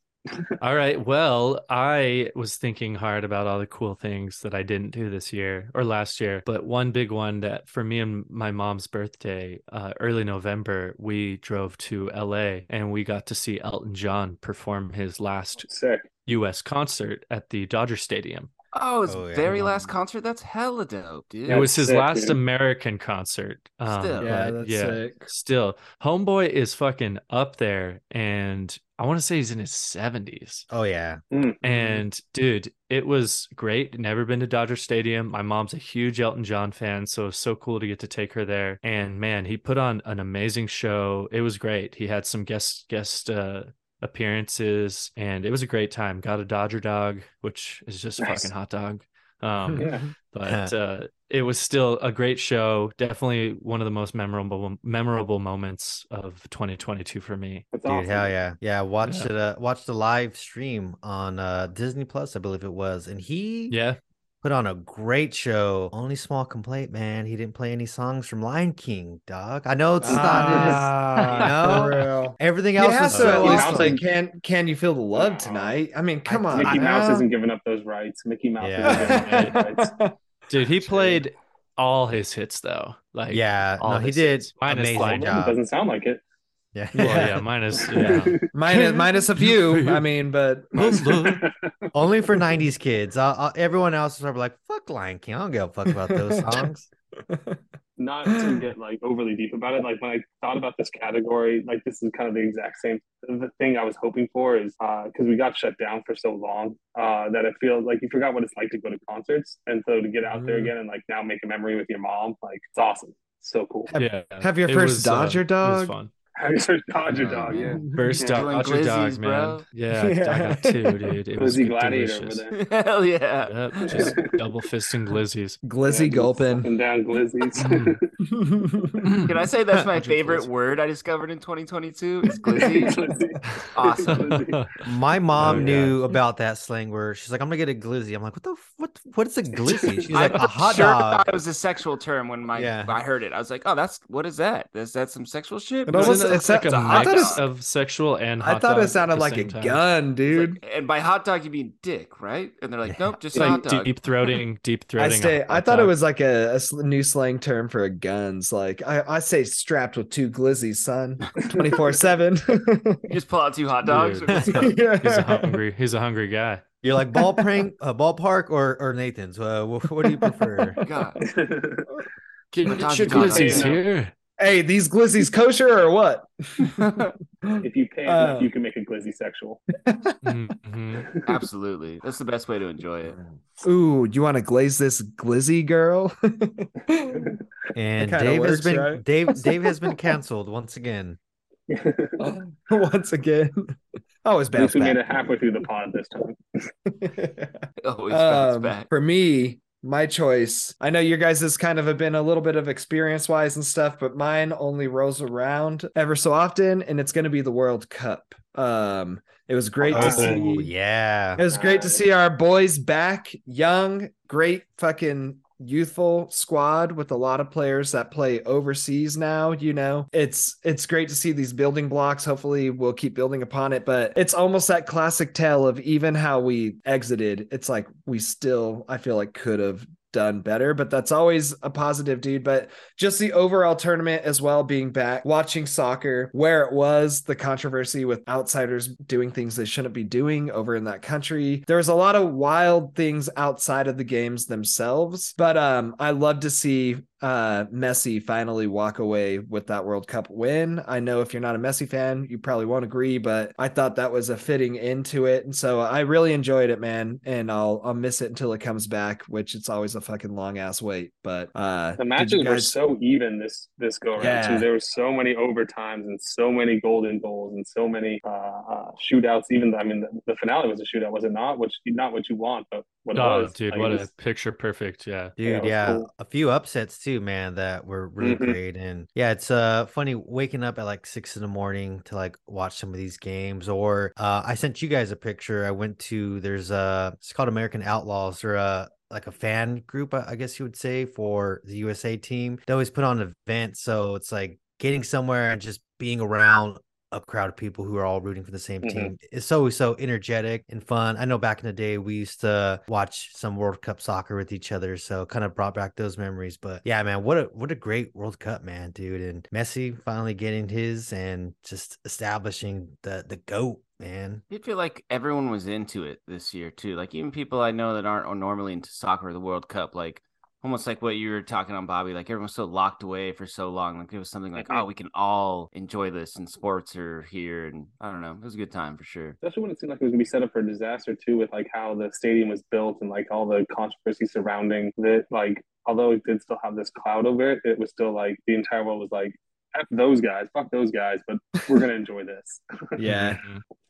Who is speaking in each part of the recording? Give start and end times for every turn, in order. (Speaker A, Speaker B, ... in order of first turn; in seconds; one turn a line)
Speaker A: 0.6-15.7
Speaker B: 15.6-16.1
Speaker A: 16.3-18.5
Speaker C: 18.7-21.7
Speaker D: 19.1-19.6
Speaker A: 19.5-19.9
Speaker B: 21.5-22.4
Speaker A: 21.5-30.7
Speaker C: 23.9-24.3
Speaker E: 24.2-25.3
Speaker D: 30.7-31.2
Speaker B: 31.3-31.9
Speaker A: 31.6-57.7
Speaker B: 48.2-48.5
Speaker B: 49.8-50.1
Speaker D: 50.5-50.7
Speaker B: 57.7-58.3
Speaker D: 57.9-63.8
Speaker A: 59.0-59.3
Speaker A: 63.7-64.0
Speaker D: 64.4-74.0
Speaker E: 70.0-77.3
Speaker B: 70.0-71.4
Speaker A: 71.2-72.1
Speaker B: 73.1-74.0
Speaker C: 75.2-75.7
Speaker D: 76.3-77.0
Speaker B: 76.5-80.0
Speaker D: 78.6-79.2
Speaker E: 78.8-80.2
Speaker A: 79.3-79.6
Speaker A: 80.5-85.4
Speaker D: 83.3-85.6
Speaker B: 84.9-86.2
Speaker D: 86.8-87.3
Speaker E: 86.9-87.4
Speaker A: 87.0-90.1
Speaker B: 87.8-88.5
Speaker E: 88.4-91.4
Speaker B: 90.8-91.7
Speaker A: 90.9-91.4
Speaker D: 91.9-96.9
Speaker E: 96.0-96.6
Speaker E: 97.3-97.6
Speaker B: 98.0-113.9
Speaker E: 98.3-98.7
Speaker E: 110.3-110.7
Speaker E: 113.9-116.0
Speaker A: 114.0-116.1
Speaker B: 116.4-118.5
Speaker C: 117.2-119.7
Speaker E: 117.5-118.2
Speaker A: 117.9-122.5
Speaker E: 119.9-121.2
Speaker B: 121.4-122.6
Speaker C: 122.5-124.2
Speaker A: 123.4-125.6
Speaker B: 123.8-124.5
Speaker E: 125.6-126.7
Speaker B: 125.8-128.1
Speaker A: 127.6-128.0
Speaker E: 128.2-129.1
Speaker A: 129.0-130.5
Speaker C: 129.3-133.0
Speaker B: 132.6-134.6
Speaker E: 132.6-132.9
Speaker A: 133.6-136.0
Speaker C: 133.8-134.4
Speaker D: 134.8-141.4
Speaker E: 135.4-135.9
Speaker B: 139.7-140.1
Speaker C: 140.2-147.4
Speaker D: 142.5-143.0
Speaker E: 145.9-147.4
Speaker A: 145.9-149.8
Speaker E: 148.4-150.6
Speaker C: 150.3-153.9
Speaker D: 152.9-153.2
Speaker A: 153.4-155.9
Speaker E: 155.0-163.1
Speaker B: 161.4-161.8
Speaker C: 163.1-164.7
Speaker A: 163.8-166.6
Speaker E: 164.4-165.6
Speaker D: 166.8-170.8
Speaker E: 170.0-170.7
Speaker C: 170.8-171.2
Speaker B: 171.2-171.9
Speaker A: 172.5-174.1
Speaker C: 172.7-173.8
Speaker B: 173.1-173.8
Speaker E: 174.4-178.5
Speaker B: 177.6-179.6
Speaker E: 179.8-180.4
Speaker A: 180.2-181.1
Speaker C: 181.3-183.2
Speaker E: 183.6-187.3
Speaker B: 187.1-187.4
Speaker D: 187.8-191.2
Speaker E: 188.0-189.7
Speaker B: 191.7-192.3
Speaker E: 192.2-195.0
Speaker B: 194.6-196.4
Speaker E: 196.9-210.7
Speaker C: 197.8-198.9
Speaker B: 209.8-210.5
Speaker D: 209.9-211.4
Speaker E: 211.4-262.8
Speaker B: 211.4-212.0
Speaker B: 262.0-274.1
Speaker E: 264.2-264.7
Speaker A: 273.1-275.4
Speaker D: 275.4-314.4
Speaker B: 275.4-276.1
Speaker B: 278.2-278.6
Speaker B: 298.8-299.1
Speaker C: 314.5-329.4
Speaker B: 324.6-324.9
Speaker B: 329.4-343.0
Speaker E: 343.0-343.4
Speaker A: 343.1-343.6